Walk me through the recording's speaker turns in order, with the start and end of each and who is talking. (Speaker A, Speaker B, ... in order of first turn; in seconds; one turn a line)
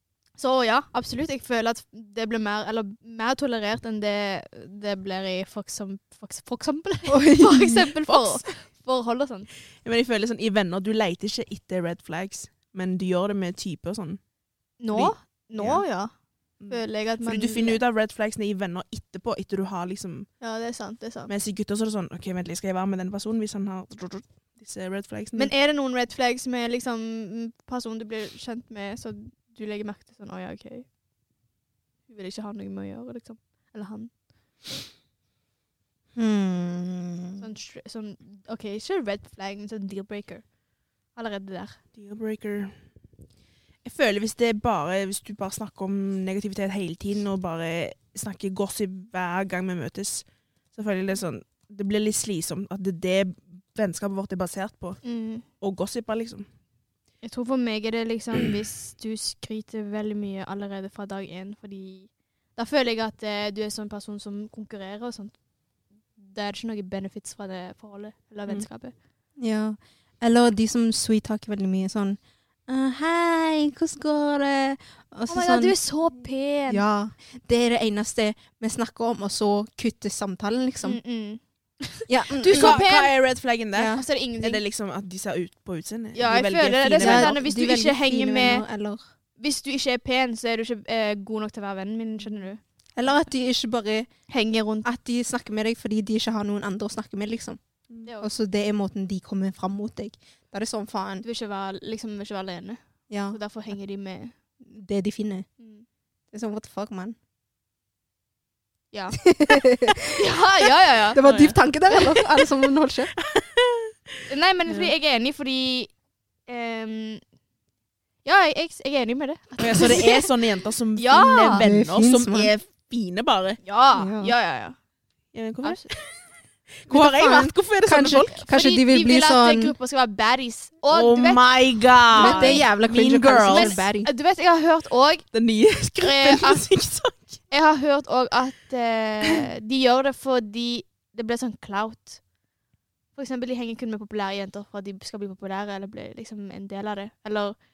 Speaker A: 0.4-9.5
Speaker B: 7.1-8.4
Speaker C: 9.8-14.2
Speaker A: 14.8-16.1
Speaker C: 14.9-15.8
Speaker C: 16.6-20.3
Speaker A: 16.7-17.8
Speaker A: 20.4-21.3
Speaker C: 21.3-25.5
Speaker A: 25.4-30.9
Speaker A: 32.1-34.1
Speaker B: 36.2-37.4
Speaker A: 37.4-40.4
Speaker A: 41.1-41.8
Speaker C: 42.0-42.8
Speaker C: 43.8-55.0
Speaker A: 55.0-55.5
Speaker C: 55.6-56.5
Speaker A: 57.2-65.3
Speaker A: 66.2-68.9
Speaker B: 69.4-75.8
Speaker A: 75.3-76.8
Speaker B: 76.7-81.0
Speaker A: 80.8-83.1
Speaker B: 82.1-82.8
Speaker C: 82.5-87.4
Speaker B: 83.8-84.0
Speaker A: 83.9-84.6
Speaker A: 86.2-88.6
Speaker B: 86.9-89.0
Speaker A: 89.4-92.6
Speaker B: 93.0-94.1
Speaker A: 94.3-94.8
Speaker B: 94.8-97.6
Speaker B: 98.2-101.2
Speaker A: 101.2-104.3
Speaker B: 103.1-103.4
Speaker B: 104.7-105.5
Speaker A: 105.6-105.8
Speaker B: 106.3-107.2
Speaker A: 108.9-112.2
Speaker B: 109.2-113.1
Speaker C: 111.3-111.5
Speaker C: 113.3-113.9
Speaker A: 114.3-115.9
Speaker A: 116.5-117.2
Speaker A: 118.2-120.3
Speaker C: 119.6-123.6
Speaker A: 121.0-121.6
Speaker B: 121.6-122.5
Speaker A: 123.6-124.8
Speaker B: 124.0-124.3
Speaker C: 125.3-126.0
Speaker C: 126.9-128.4
Speaker B: 126.9-129.7
Speaker A: 128.3-131.5
Speaker C: 130.9-133.8
Speaker A: 132.1-132.7
Speaker B: 132.2-134.1
Speaker A: 133.5-135.3
Speaker C: 135.3-137.4
Speaker A: 136.0-136.6
Speaker A: 137.5-142.2
Speaker A: 143.2-147.6